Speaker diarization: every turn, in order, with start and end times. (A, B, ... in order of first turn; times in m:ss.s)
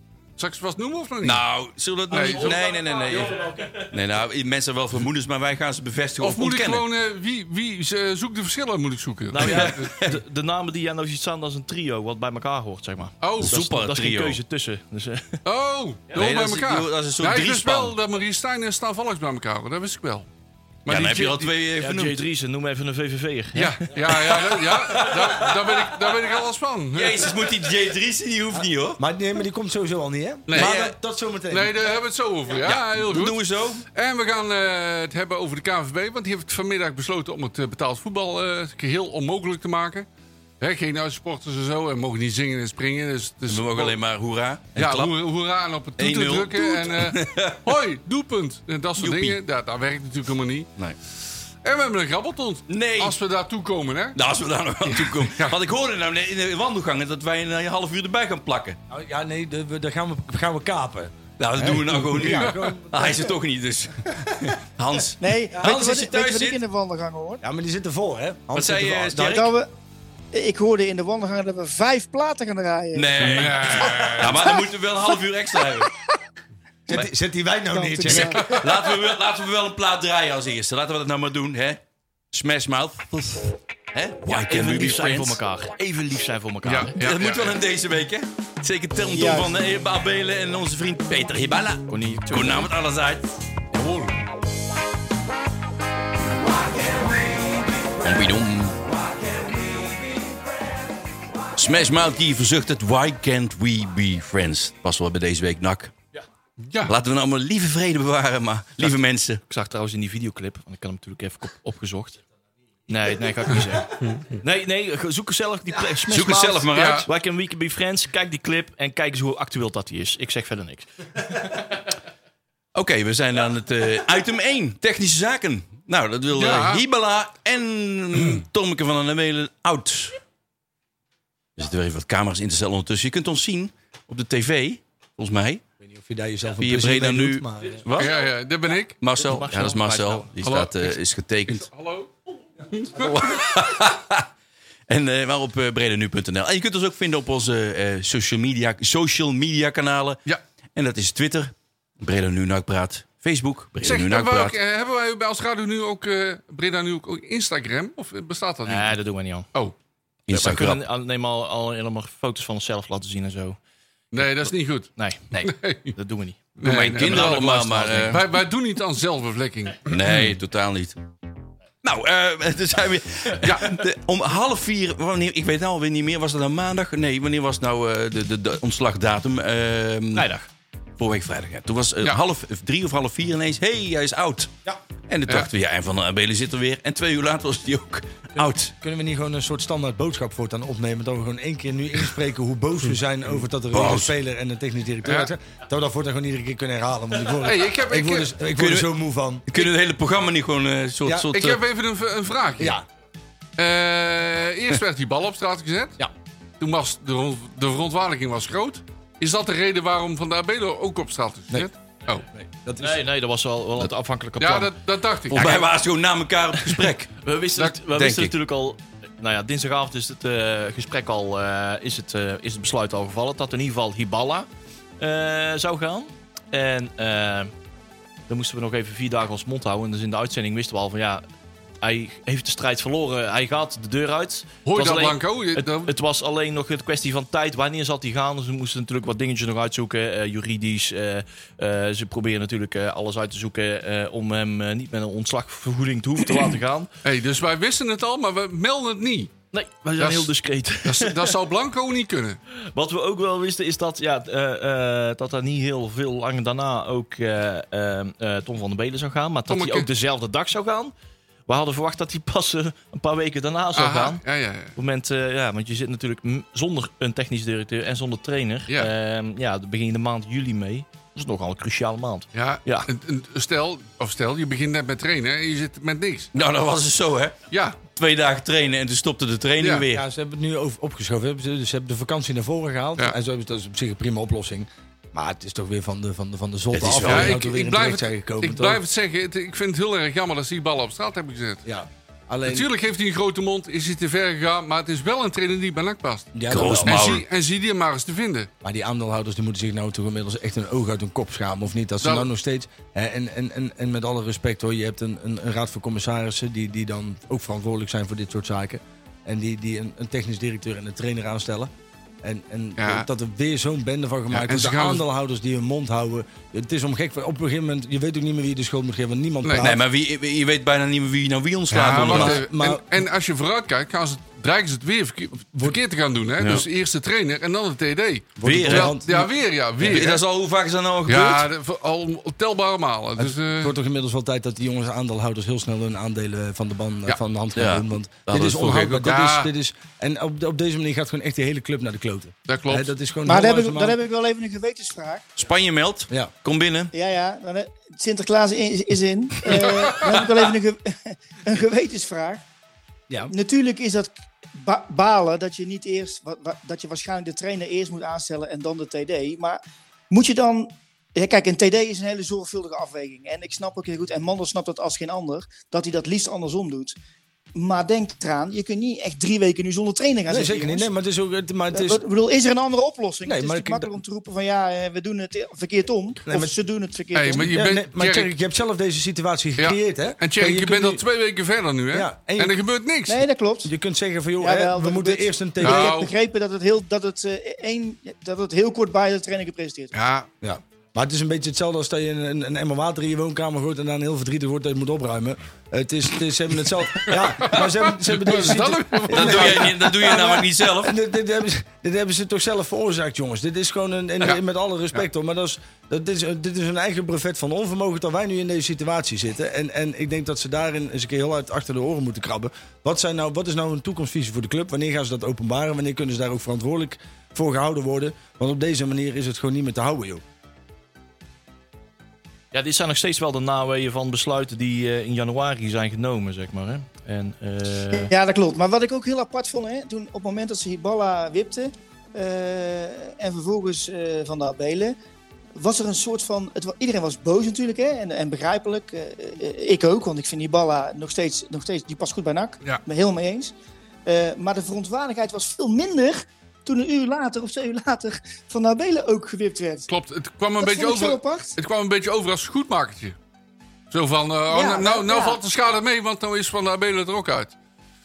0:00.4-0:01.4 A
0:01.2-0:06.8 B
0:02.1-0:02.6 A
0:02.1-0:03.8 C
0:06.2-0:10.0 A
0:09.3-0:15.4 C
0:09.4-0:10.2 B
0:13.2-0:13.5 A
0:13.4-0:14.4 B
0:15.4-0:20.2 A
0:16.1-0:17.9 B
0:20.8-0:21.5 A
0:20.9-0:22.2 B
0:21.8-0:23.8 C
0:23.5-0:27.4 A
0:24.1-0:26.2 B
0:26.9-0:29.0 B
0:28.5-0:31.8 D
0:30.5-0:30.8 A
0:30.5-0:30.9 B
0:31.5-0:40.0 A
0:32.6-0:33.8 B
0:40.6-0:44.0 A
0:43.5-0:45.1 B
0:44.8-0:50.7 A
0:46.0-0:47.6 B
0:49.0-0:49.4 B
0:51.6-0:54.2 A
0:52.7-0:53.2 B
0:54.1-0:58.8 B
0:54.9-0:55.6 A
0:58.9-1:03.3 D
1:01.4-1:06.6 B
1:02.3-1:02.6 A
1:05.2-1:07.4 E
1:07.4-1:09.4 D
1:08.5-1:09.5 B
1:09.2-1:09.7 E
1:10.3-1:14.1 E
1:12.9-1:15.9 B
1:13.2-1:14.6 A
1:16.9-1:18.5 D
1:17.7-1:18.6 E
1:18.1-1:18.6 A
1:18.4-1:21.8 B
1:22.3-1:25.4 B
1:24.3-1:27.1 C
1:26.6-1:27.5 A
1:27.0-1:33.3 B
1:29.1-1:29.5 E
1:31.9-1:32.7 C
1:33.7-1:34.1 A
1:38.0-1:38.8 B
1:41.5-1:45.9 B
1:46.9-1:49.4 B
1:49.5-1:52.2 C
1:52.9-2:01.6 C
1:53.9-1:54.4 A
1:56.0-1:57.1 B
1:56.7-1:57.1 A
2:02.7-2:10.2 B
2:06.3-2:06.8 A
2:08.2-2:08.4 A
2:11.6-2:15.6 B
2:15.8-2:17.8 D
2:16.6-2:18.2 B
2:17.9-2:19.0 A
2:19.0-2:21.7 B
2:19.2-2:20.3 C
2:20.4-2:22.1 A
2:22.7-2:23.2 A
2:23.0-2:24.3 B
2:24.9-2:30.2 B
2:30.7-2:34.5 B
2:33.8-2:39.0 A
2:38.6-2:39.5 C
2:40.3-2:40.8 B
2:40.3-2:43.6 C
2:44.1-2:45.9 A
2:44.1-2:48.2 C
2:46.6-2:50.0 A
2:46.6-2:48.2 B
2:49.8-2:51.0 B
2:51.8-3:00.3 B
2:53.4-2:53.8 A
3:00.1-3:00.5 C
3:01.0-3:04.5 B
3:05.1-3:08.7 B
3:08.7-3:19.4 D
3:13.7-3:14.1 B
3:15.0-3:15.3 A
3:17.4-3:18.4 A
3:18.6-3:18.9 B
3:19.5-3:21.6 B
3:21.3-3:22.8 A
3:22.6-3:22.8 D
3:23.6-3:26.0 A
3:26.6-3:32.2 A
3:32.3-3:33.0 D
3:32.8-3:34.7 C
3:34.4-3:35.6 A
3:35.3-3:37.1 B
3:37.2-3:44.5 C
3:37.9-3:38.3 B
3:45.0-3:47.5 C
3:48.3-3:51.2 C
3:51.8-4:06.9 C
3:54.6-3:55.9 A
4:07.0-4:09.3 A
4:09.5-4:11.3 C
4:10.0-4:10.3 A
4:10.8-4:12.4 A
4:12.5-4:20.9 C
4:19.5-4:19.9 A
4:21.5-4:24.2 C
4:23.7-4:24.7 A
4:24.7-4:32.9 C
4:32.3-4:36.3 A
4:36.3-4:37.4 B
4:37.5-4:37.8 A
4:38.0-4:40.0 B
4:39.6-4:39.8 A
4:39.9-4:48.8 D
4:46.7-4:47.4 B
4:47.0-4:51.6 A
4:51.6-4:52.7 D
4:52.4-4:58.5 A
4:56.3-4:57.1 D
4:56.5-4:57.2 B
4:58.6-5:11.7 D
5:02.0-5:02.3 A
5:12.2-5:19.8 D
5:12.8-5:13.1 A
5:14.3-5:15.0 A
5:19.4-5:19.7 A
5:19.6-5:22.4 B
5:21.7-5:30.2 A
5:21.9-5:23.0 D
5:25.5-5:25.8 D
5:26.4-5:26.6 B
5:28.4-5:29.3 D
5:28.4-5:28.9 B
5:29.8-5:31.4 B
5:31.1-5:33.7 A
5:33.2-5:44.0 D
5:37.6-5:39.0 B
5:38.8-5:39.5 A
5:42.5-5:42.9 A
5:43.2-5:45.3 E
5:45.4-5:46.9 B
5:46.9-5:52.4 E
5:49.5-5:50.2 A
5:53.3-6:06.9 E
6:07.5-6:10.9 E
6:10.3-6:12.0 D
6:11.7-6:17.5 E
6:13.2-6:13.9 D
6:16.2-6:16.5 D
6:17.1-6:18.3 A
6:17.4-6:21.0 D
6:19.6-6:23.2 A
6:21.9-6:22.6 D
6:23.1-6:23.7 E
6:23.6-6:26.0 D
6:24.4-6:29.9 E
6:25.6-6:26.1 A
6:29.9-6:30.3 A
6:30.4-7:00.2 D
6:37.0-6:40.1 A
6:39.1-6:41.0 B
7:02.5-7:08.1 C
7:07.9-7:15.0 E
7:15.5-7:23.5 E
7:24.0-7:29.9 E
7:29.9-7:33.2 A
7:30.6-7:31.5 E
7:33.9-7:37.5 A
7:34.5-7:35.4 E